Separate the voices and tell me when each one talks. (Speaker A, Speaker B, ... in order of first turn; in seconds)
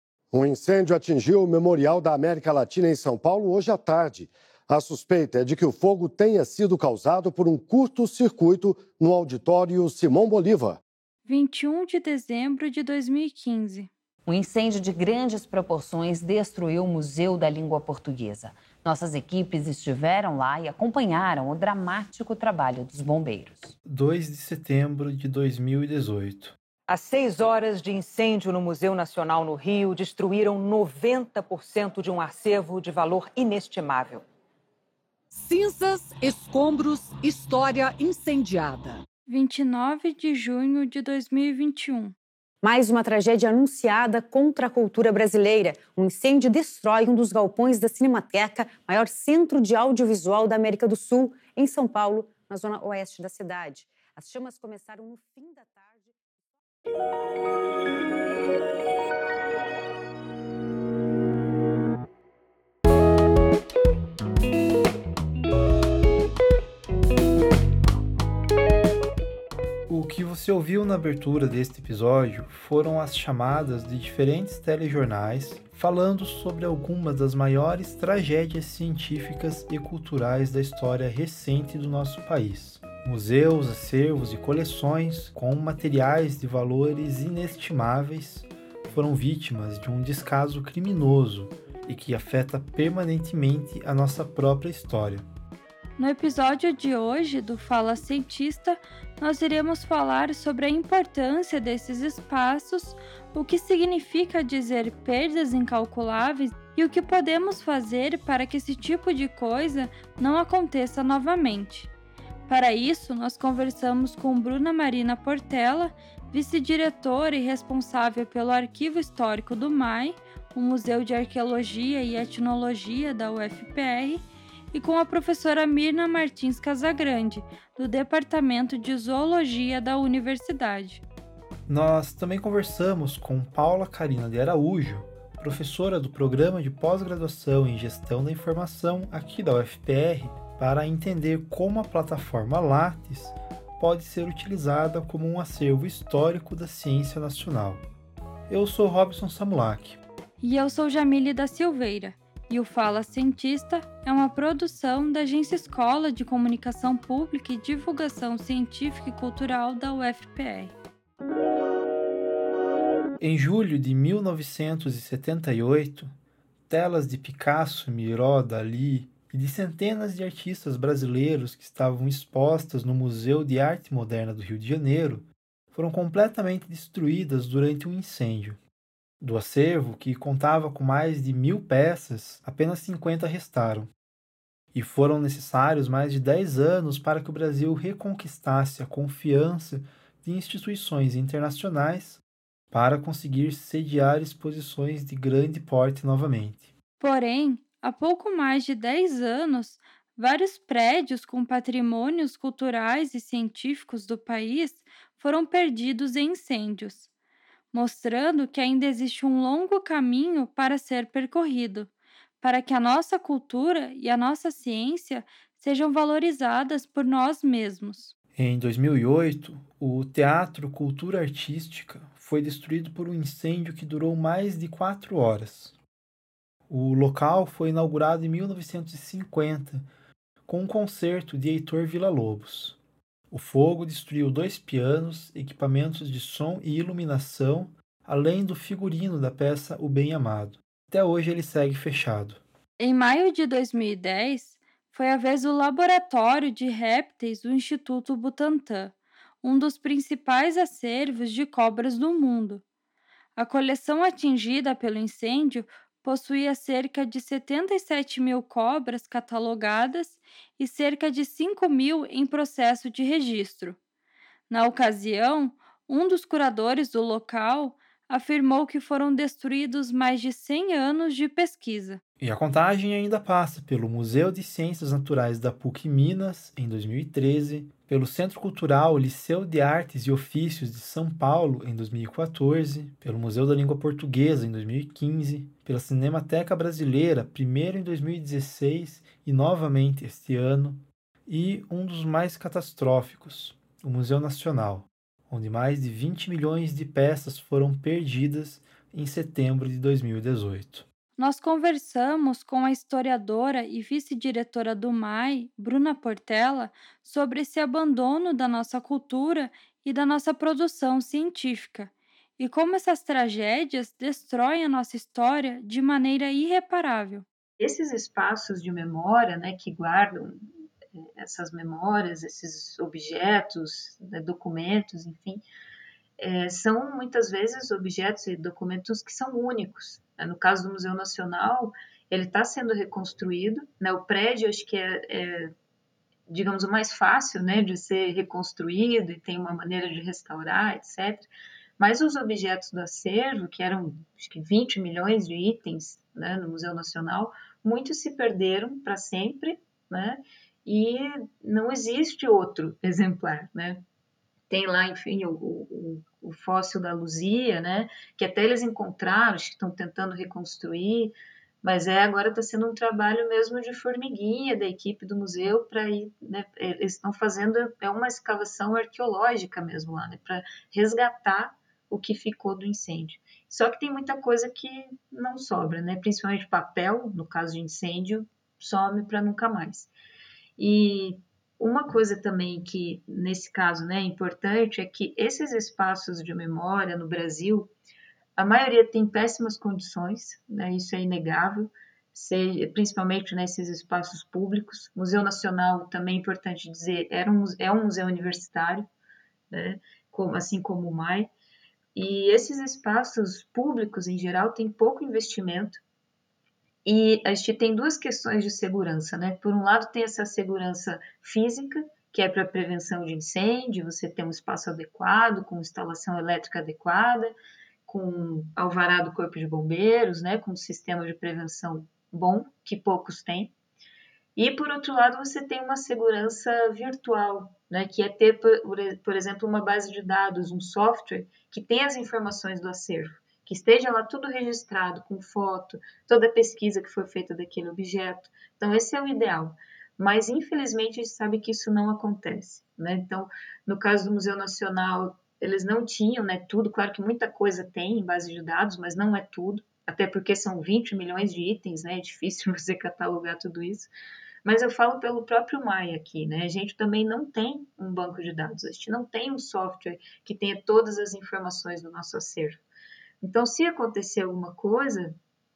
Speaker A: 0.3-10.8
Speaker B: 11.3-13.9, 39.3-42.1, 96.0-111.9, 112.5-131.0, 150.4-160.7, 197.0-207.1, 207.7-211.9, 212.4-218.1, 242.8-252.6, 253.4-263.8, 264.5-272.0, 301.2-317.2
Speaker C: 14.3-23.8
Speaker D: 23.9-26.6, 69.9-95.3, 131.7-147.8, 148.5-150.0, 163.2-166.1, 166.7-178.6, 179.2-183.9, 184.7-196.7, 218.3-225.8, 226.7-229.9, 230.5-232.8, 233.3-242.4, 272.2-300.9
Speaker E: 26.9-34.2, 35.3-39.0
Speaker F: 42.6-56.2
Speaker G: 317.6-320.5, 321.0-325.4, 326.2-335.5, 336.3-341.3, 341.8-353.8, 354.5-379.9, 380.6-387.7, 388.4-398.9, 399.5-401.3, 401.9-405.8, 406.9-417.3, 417.9-423.5, 424.4-453.9, 454.4-462.6, 463.2-465.2